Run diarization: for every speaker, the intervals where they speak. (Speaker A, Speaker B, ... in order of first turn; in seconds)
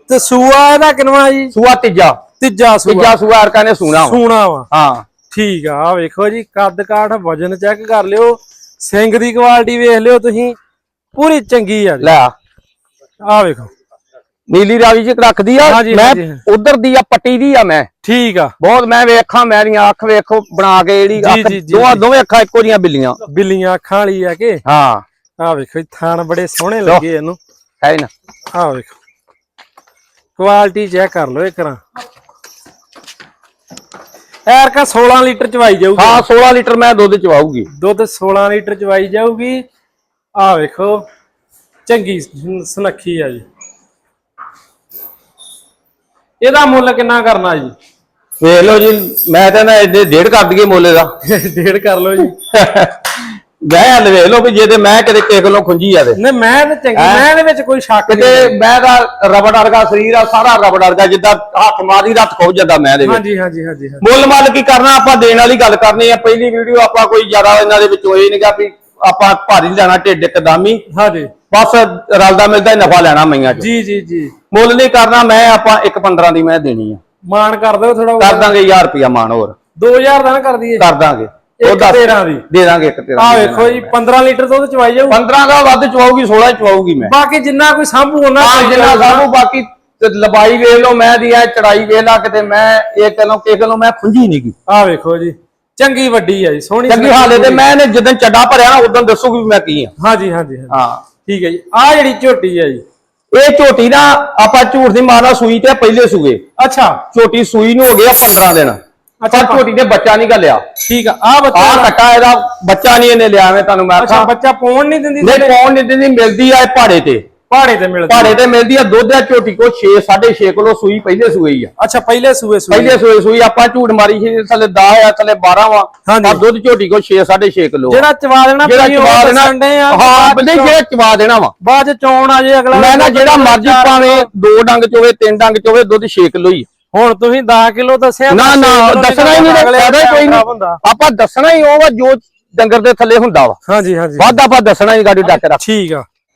Speaker A: 0.1-1.6, 2.4-3.2, 4.0-4.7, 5.3-10.6, 11.2-12.2, 13.2-13.7, 15.7-16.4, 18.0-18.5, 21.2-22.0, 23.3-24.6, 25.4-27.4, 28.5-28.9, 30.4-31.8, 34.5-36.2, 37.7-39.6, 40.4-41.0, 41.9-43.4, 46.4-47.7, 51.2-52.3, 56.1-58.6, 63.0-64.0, 70.9-71.3, 73.6-74.3, 77.3-78.5, 79.8-80.9, 81.6-82.4, 83.2-85.2, 87.0-89.3, 94.7-97.6, 100.0-102.8, 106.6-107.0, 109.2-109.6, 110.8-111.9, 114.0-115.5, 117.5-118.4, 121.8-123.0, 126.1-126.4, 127.9-130.8, 131.6-134.3, 136.9-140.8, 143.7-144.4, 145.3-146.1
Speaker B: 1.5-2.2, 2.9-4.2, 4.7-5.1, 12.0-12.3, 14.5-17.9, 18.6-23.2, 24.6-25.0, 27.8-28.1, 36.0-37.7, 48.4-51.1, 52.2-56.2, 57.0-57.2, 58.1-63.2, 64.0-70.8, 71.5-73.7, 74.5-77.0, 78.2-79.5, 80.8-83.9, 85.1-87.1, 88.4-94.5, 96.9-99.9, 100.7-101.0, 103.3-106.4, 107.1-108.8, 109.3-110.6, 111.5-114.3, 115.2-117.2, 118.1-121.7, 122.7-128.1, 128.6-131.5, 132.7-136.7, 138.3-143.6, 144.2-145.6